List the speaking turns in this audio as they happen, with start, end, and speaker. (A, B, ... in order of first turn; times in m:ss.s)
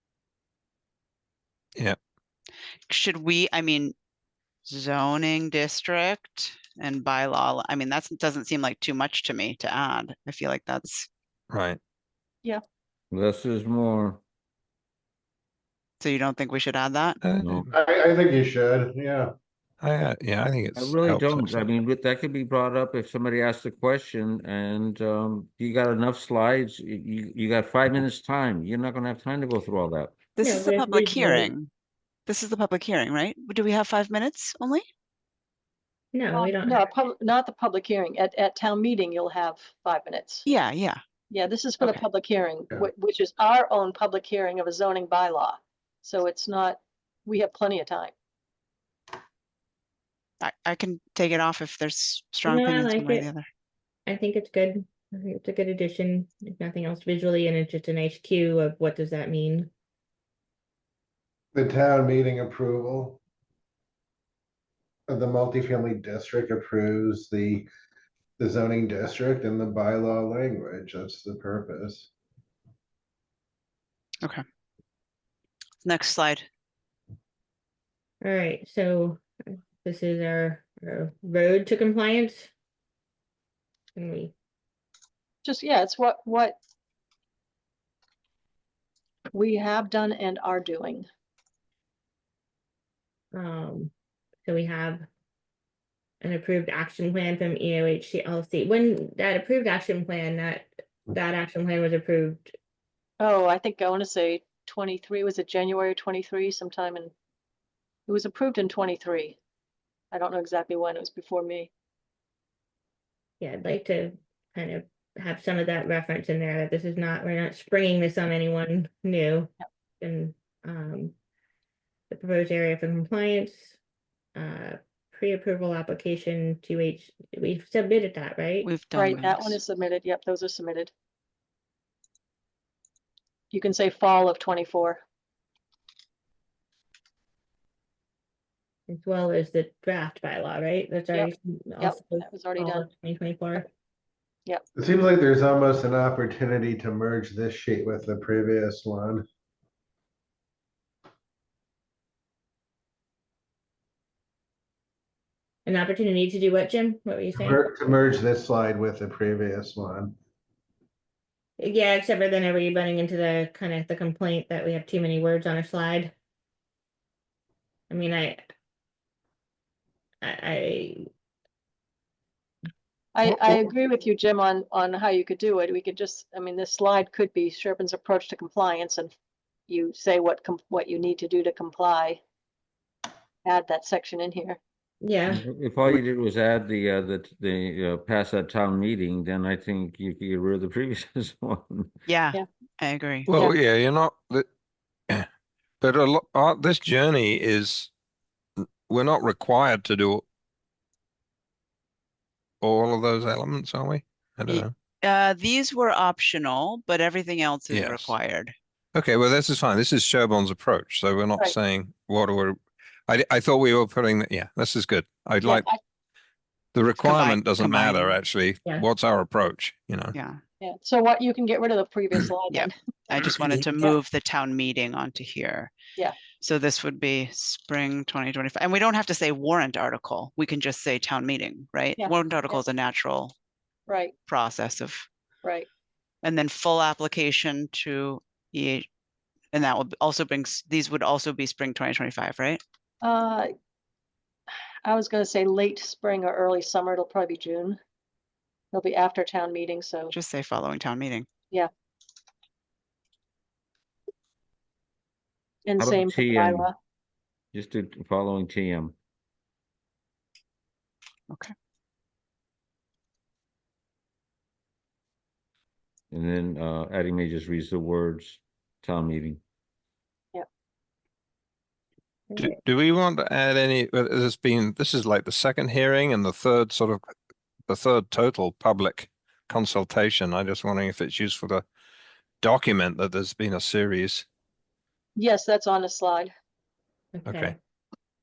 0:02.9-0:03.9 A
0:04.7-0:11.1 A
0:11.5-0:11.8 B
0:13.1-0:14.2 C
0:16.0-0:17.2 A
0:17.2-0:17.7 B
0:17.4-0:17.7 C
0:17.7-0:19.3 D
0:19.8-0:21.7 B
0:20.8-0:30.3 C
0:30.4-0:31.7 A
0:30.4-0:31.5 E
0:32.3-0:34.8 A
0:36.1-0:36.9 E
0:36.3-0:40.5 F
0:40.5-0:41.0 A
0:41.3-0:48.1 F
0:50.4-0:53.4 A
0:52.4-0:53.3 E
0:54.1-0:59.7 E
1:01.5-1:03.2 D
1:05.1-1:07.7 D
1:08.4-1:12.1 D
1:15.8-1:16.5 A
1:18.2-1:22.5 E
1:24.0-1:24.3 E
1:25.4-1:26.6 F
1:29.3-1:31.1 F
1:33.3-1:33.9 E
1:34.4-1:35.0 E
1:36.2-1:42.5 E
1:43.2-1:47.1 F
1:48.1-1:49.4 F
1:50.1-1:51.7 F
1:53.4-2:01.2 E
2:02.1-2:03.8 E
2:04.4-2:08.7 E
2:08.6-2:09.6 A
2:08.9-2:10.9 F
2:13.5-2:15.0 F
2:18.9-2:23.7 E
2:21.1-2:22.9 F
2:24.8-2:29.2 D
2:35.6-2:38.0 E
2:37.4-2:40.2 D
2:41.6-2:46.1 E
2:47.9-2:48.4 E
2:50.2-2:51.1 E
2:53.2-2:59.1 F
2:59.7-3:02.2 F
3:03.4-3:04.6 F
3:05.0-3:05.4 E
3:05.3-3:11.9 C
3:12.1-3:13.3 A
3:13.3-3:14.5 B
3:15.8-3:17.9 B
3:18.6-3:20.2 B
3:22.6-3:24.7 B
3:24.5-3:28.5 A
3:27.7-3:28.2 B
3:28.9-3:35.7 B
3:35.4-3:35.8 F
3:36.7-3:40.2 B
3:37.0-3:38.2 A
3:40.1-3:40.4 A
3:40.6-3:44.0 F
3:42.5-3:45.7 A
3:46.4-3:53.3 A
3:52.0-3:52.6 F
3:53.9-3:54.1 F
3:54.3-3:55.1 A
3:56.2-3:58.9 A
3:59.5-4:02.6 A
4:03.0-4:03.5 F
4:04.8-4:07.8 F
4:08.7-4:10.1 F
4:10.1-4:11.3 A
4:15.7-4:16.7 F
4:15.8-4:16.7 C
4:17.5-4:19.0 C
4:26.1-4:29.4 C
4:32.4-4:37.0 B
4:37.7-4:41.7 B
4:42.4-4:44.3 B
4:45.2-4:46.3 F
4:47.1-4:47.6 E
4:47.3-4:47.6 B